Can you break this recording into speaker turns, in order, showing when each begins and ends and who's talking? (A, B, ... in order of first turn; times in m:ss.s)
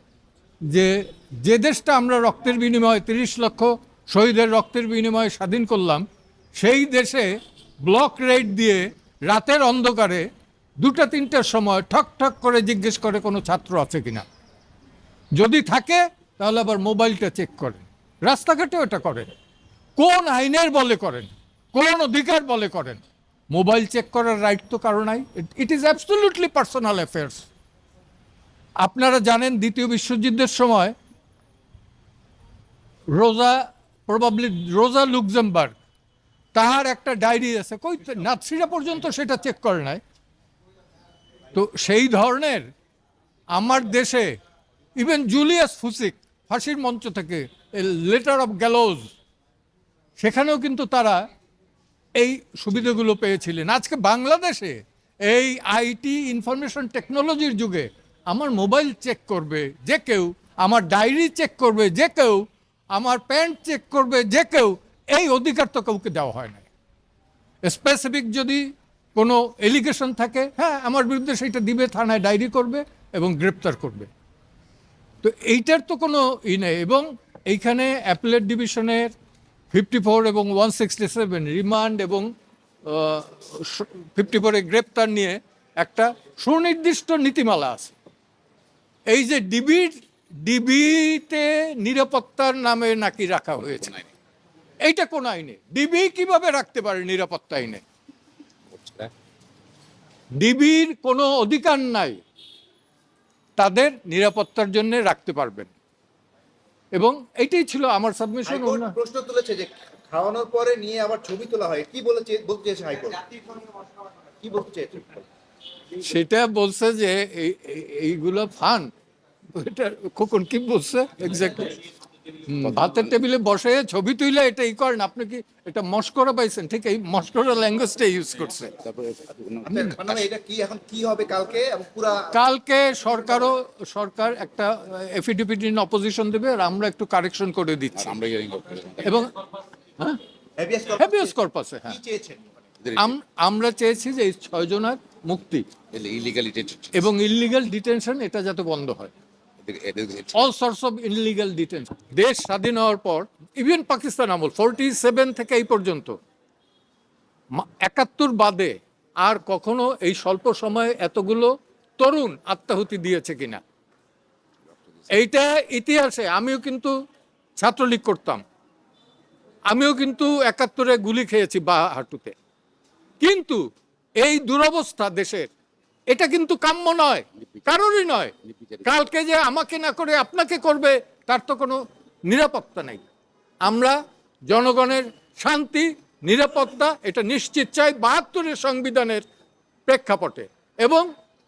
0:00.6-0:10.3 A
0:10.8-0:14.2 A
0:15.3-0:19.3 A
0:20.0-0:27.5 A
0:28.8-0:30.9 A
0:33.1-0:35.8 A
0:36.5-0:40.0 A
0:41.5-0:42.7 A
0:43.5-0:44.4 A
0:45.0-0:49.1 A
0:50.2-0:51.3 A
0:52.2-1:06.7 A
1:07.6-1:14.1 A
1:15.2-1:19.1 A
1:19.7-1:22.3 A
1:22.8-1:28.0 A
1:29.1-1:34.0 A
1:34.8-1:37.8 A
1:38.8-1:39.1 B
1:40.4-1:42.2 A
1:43.6-1:45.7 A
1:46.9-1:49.0 A
1:48.5-1:53.8 C
1:54.4-1:55.2 C
1:56.0-1:58.9 A
1:59.5-2:01.8 A
2:02.4-2:08.8 A
2:08.8-2:10.1 B
2:09.7-2:12.3 C
2:12.3-2:18.2 A
2:18.0-2:19.2 B
2:19.0-2:19.4 A
2:20.6-2:21.3 C
2:21.0-2:22.0 A
2:21.9-2:22.5 C
2:22.9-2:25.7 A
2:25.9-2:27.0 B
2:26.9-2:29.1 A
2:29.6-2:30.4 B
2:30.3-2:36.2 A
2:37.5-2:43.6 A
2:45.1-2:46.9 A
2:47.6-2:48.4 A
2:49.7-2:52.3 A
2:53.2-2:53.6 A
2:54.2-2:55.5 A
2:56.1-3:03.0 A
3:03.6-3:09.2 A
3:09.9-3:11.1 A